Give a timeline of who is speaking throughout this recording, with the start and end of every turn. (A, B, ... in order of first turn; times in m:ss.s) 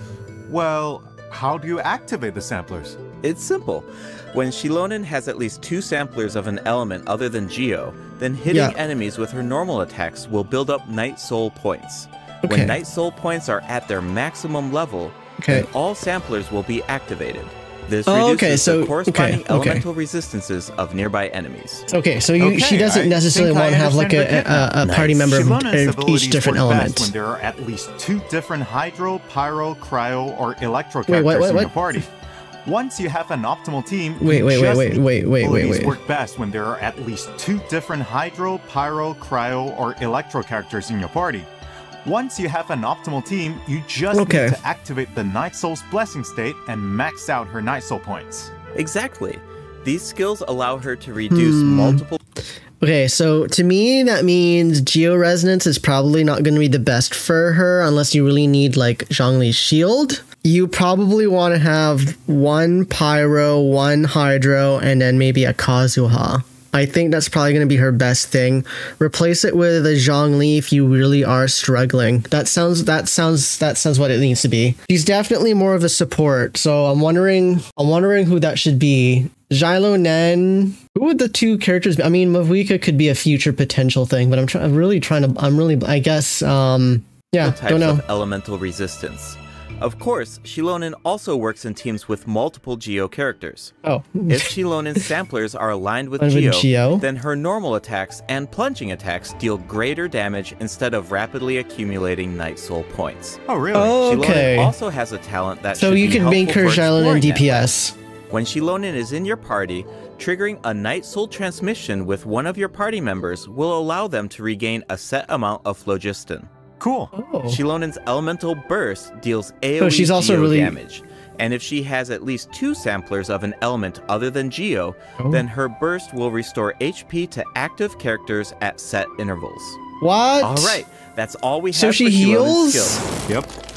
0:00.5-0:03.0 A
0:03.2-0:21.9 B
0:08.5-0:08.8 C
0:12.4-0:12.8 C
0:15.4-0:15.7 C
0:18.1-0:19.8 C
0:21.9-0:27.1 C
0:22.4-0:32.1 A
0:24.8-0:25.1 B
0:31.1-0:31.8 C
0:32.6-0:41.5 A
0:34.2-0:36.0 C
0:42.0-0:48.5 A
0:44.1-0:44.6 C
0:48.8-0:52.2 B
0:51.3-0:52.0 C
0:52.8-1:28.0 C
1:27.4-1:33.7 B
1:33.8-1:35.0 C
1:34.3-1:47.7 B
1:36.2-1:37.0 C
1:43.5-1:44.0 A
1:43.7-1:44.8 C
1:45.8-1:48.0 C
1:48.3-1:56.5 B
1:56.8-1:57.1 A
1:57.1-1:57.6 C
1:57.5-2:09.8 B
1:59.8-2:00.8 C
2:05.2-2:05.4 C
2:10.0-2:10.8 C
2:10.4-2:13.0 B
2:11.7-2:13.0 C